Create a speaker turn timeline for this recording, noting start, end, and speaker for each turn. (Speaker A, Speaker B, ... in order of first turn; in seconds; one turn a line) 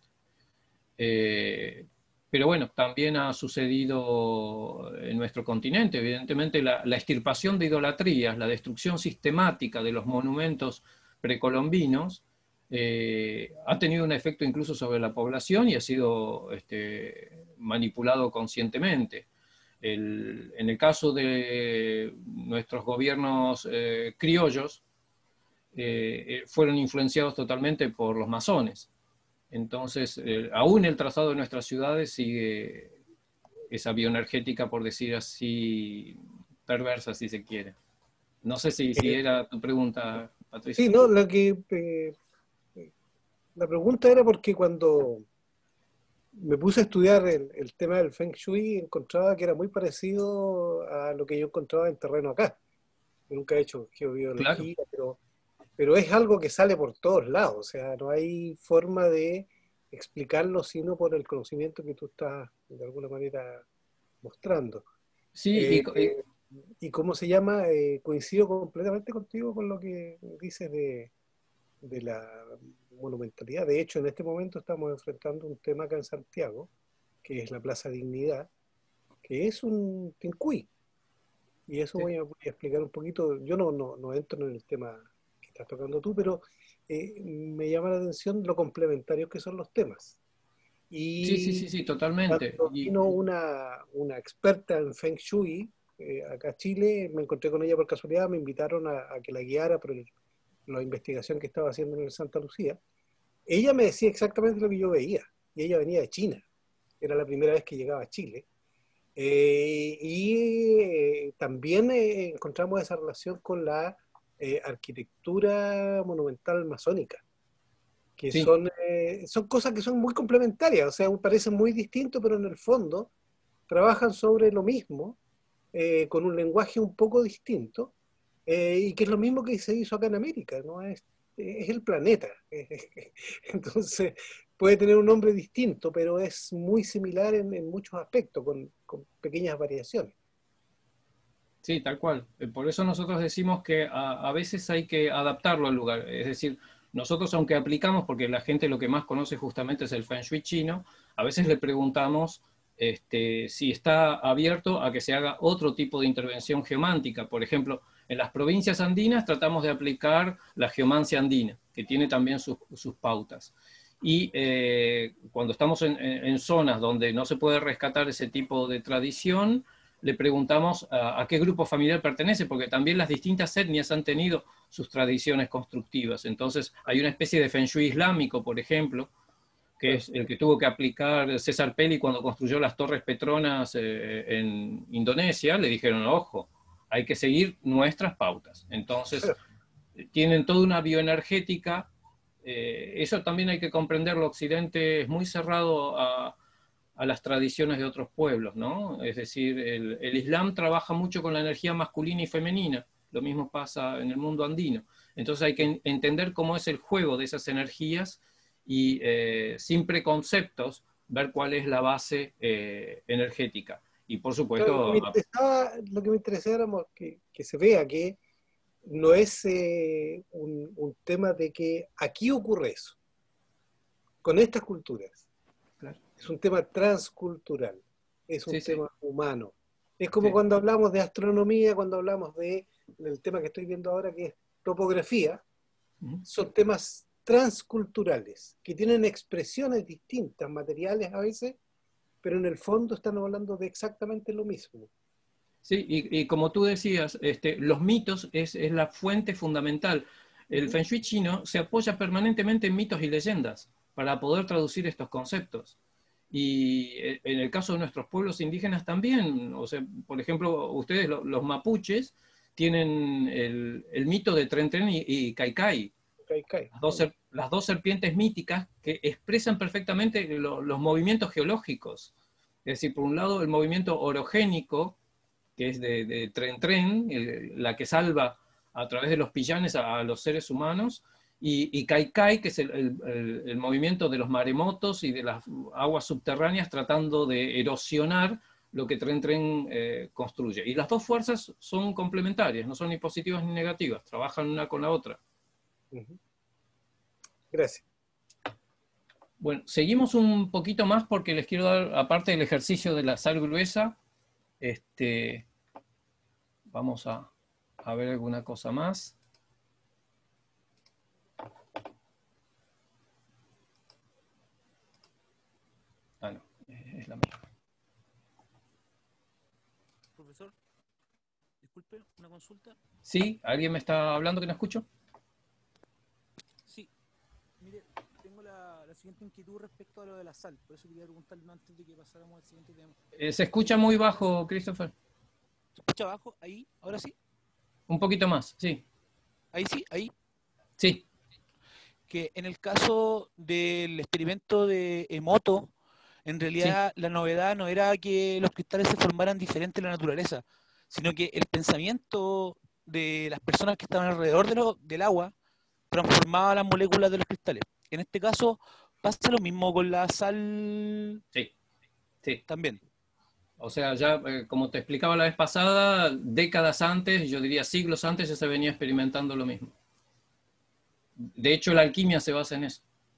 Speaker A: 1.0-19.2
Speaker A: 19.8-24.8
Speaker A: 25.7-28.9
Speaker A: 29.5-32.9
Speaker A: 33.7-37.8
Speaker A: 38.4-41.0
Speaker B: 39.0-39.2
Speaker B: 40.8-42.2
Speaker B: 43.5-45.2
Speaker B: 46.3-52.6
Speaker B: 53.3-55.2
Speaker A: 54.4-54.7
Speaker B: 55.8-63.6
Speaker B: 64.2-64.8
Speaker A: 65.3-66.2
Speaker B: 65.5-66.2
Speaker B: 66.8-71.1
Speaker B: 71.8-76.7
Speaker B: 77.2-78.5
Speaker B: 79.2-80.7
Speaker B: 81.7-90.2
Speaker B: 90.9-91.7
Speaker A: 91.2-92.9
Speaker B: 92.3-100.1
Speaker B: 100.7-102.8
Speaker B: 103.5-106.4
Speaker B: 107.0-108.5
Speaker B: 109.2-117.2
Speaker B: 118.2-123.1
Speaker B: 123.7-125.2
Speaker B: 125.7-127.9
Speaker B: 128.5-140.1
Speaker A: 141.6-179.1
Speaker A: 179.8-189.3
Speaker A: 190.0-191.9
Speaker A: 192.4-196.3
Speaker A: 197.0-215.2
Speaker B: 214.6-218.2
Speaker B: 218.8-223.0
Speaker B: 224.2-225.2
Speaker B: 226.2-235.4
Speaker A: 228.5-228.8
Speaker B: 236.2-241.6
Speaker B: 242.2-244.9
Speaker A: 245.6-255.7
Speaker A: 256.3-265.9
Speaker B: 266.3-267.0
Speaker A: 266.7-272.1
Speaker A: 272.6-274.9
Speaker A: 275.6-295.2
Speaker B: 295.9-296.2
Speaker B: 297.5-297.8
Speaker A: 299.4-304.0
Speaker A: 304.6-305.4
Speaker A: 306.7-307.3
Speaker A: 307.8-309.1
Speaker A: 316.2-317.4
Speaker C: 320.2-320.5
Speaker C: 321.6-322.8
Speaker A: 323.1-324.9
Speaker C: 327.6-333.0
Speaker A: 333.1-334.9
Speaker C: 333.5-334.3
Speaker C: 335.8-337.1
Speaker A: 337.9-338.8
Speaker C: 339.5-340.1
Speaker A: 340.8-341.0
Speaker C: 342.1-345.7
Speaker C: 346.2-355.3
Speaker C: 355.9-361.2
Speaker C: 362.5-362.8
Speaker A: 363.6-369.7
Speaker A: 371.2-372.8